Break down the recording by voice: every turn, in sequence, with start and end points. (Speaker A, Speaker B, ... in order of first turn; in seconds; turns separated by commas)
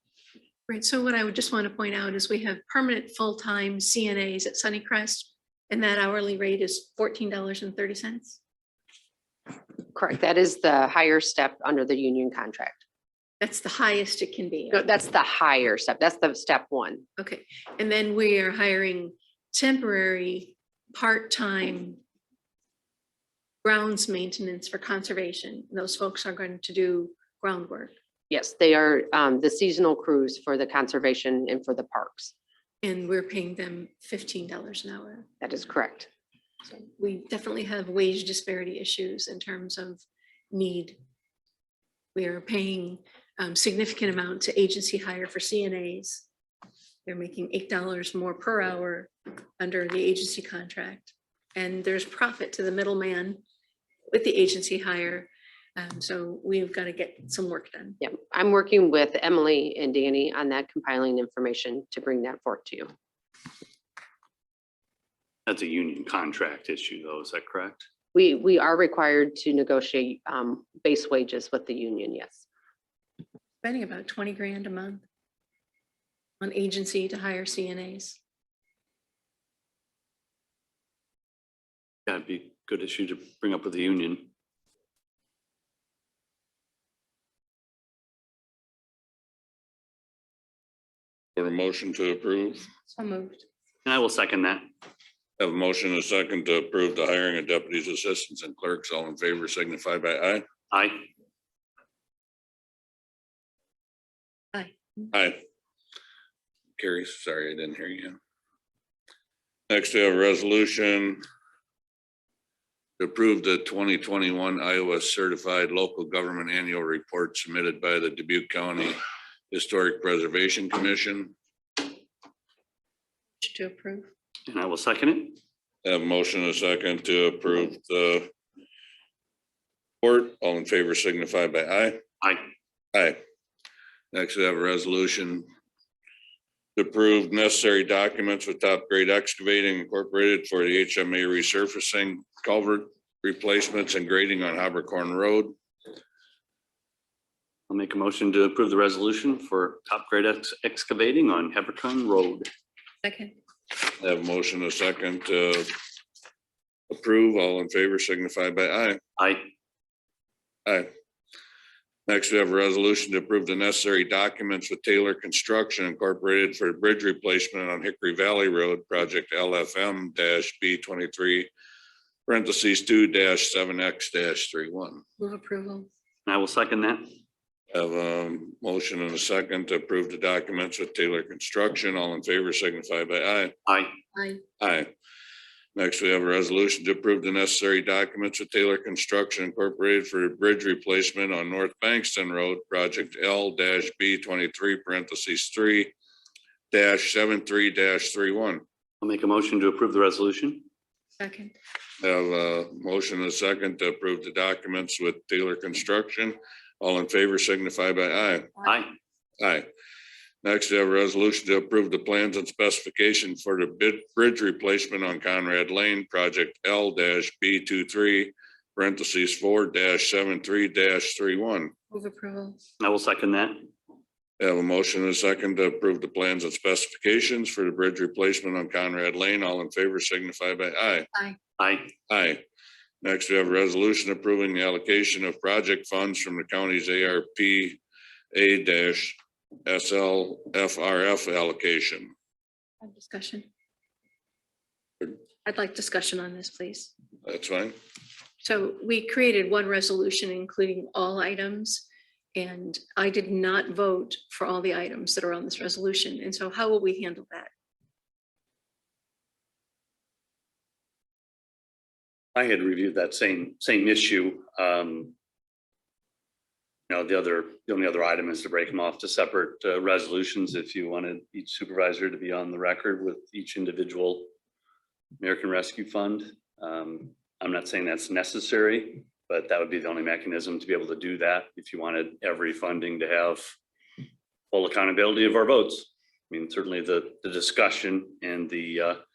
Speaker A: 0.7-8.4, Speaker B: 9.9-12.8, Speaker A: 13.4-14.8, Speaker B: 14.7-17.0, Speaker A: 17.2-22.0, Speaker A: 23.6-27.9, Speaker B: 28.3-32.3, Speaker A: 32.8-35.3, Speaker B: 35.4-36.1, Speaker A: 36.7-41.0, Speaker A: 42.1-46.2, Speaker A: 47.0-53.4, Speaker A: 54.1-58.0, Speaker B: 58.0-62.9, Speaker C: 65.5-67.9, Speaker B: 68.1-72.4, Speaker A: 73.6-75.0, Speaker A: 76.4-78.2, Speaker C: 82.1-84.3, Speaker D: 91.3-92.6, Speaker A: 92.9-93.4, Speaker C: 93.8-94.6, Speaker D: 95.4-100.4, Speaker C: 100.7-101.1, Speaker A: 104.5-105.1, Speaker D: 105.1-105.4, Speaker D: 106.8-108.2, Speaker D: 109.7-111.2, Speaker D: 113.0-119.0, Speaker D: 119.5-121.3, Speaker A: 123.4-124.1, Speaker C: 124.5-125.4, Speaker D: 125.8-128.3, Speaker D: 130.0-132.0, Speaker D: 132.9-133.2, Speaker D: 134.1-135.4, Speaker D: 136.8-145.5, Speaker C: 147.7-152.4, Speaker A: 153.0-153.3, Speaker D: 154.0-155.7, Speaker D: 156.9-159.0, Speaker C: 159.2-159.5, Speaker D: 162.1-171.5, Speaker D: 172.2-175.0, Speaker A: 175.2-175.9, Speaker C: 176.3-177.1, Speaker D: 177.7-183.5, Speaker C: 183.7-183.9, Speaker A: 184.1-184.4, Speaker D: 184.6-184.9, Speaker D: 185.7-195.9, Speaker D: 196.7-198.6, Speaker C: 199.0-200.7, Speaker A: 201.2-201.5, Speaker D: 202.0-208.5, Speaker C: 208.6-208.9, Speaker D: 209.4-209.7, Speaker D: 210.4-221.7, Speaker A: 221.9-222.6, Speaker C: 222.8-223.7, Speaker D: 224.4-231.1, Speaker A: 231.1-231.4, Speaker C: 231.6-231.9, Speaker D: 232.1-232.4, Speaker D: 233.0-237.8, Speaker D: 238.3-239.1, Speaker D: 239.7-242.1, Speaker A: 242.8-243.5, Speaker A: 245.4-246.9, Speaker D: 247.2-247.8, Speaker A: 248.4-257.5, Speaker C: 262.3-265.1, Speaker C: 266.9-274.3, Speaker C: 275.2-283.5, Speaker C: 284.5-289.0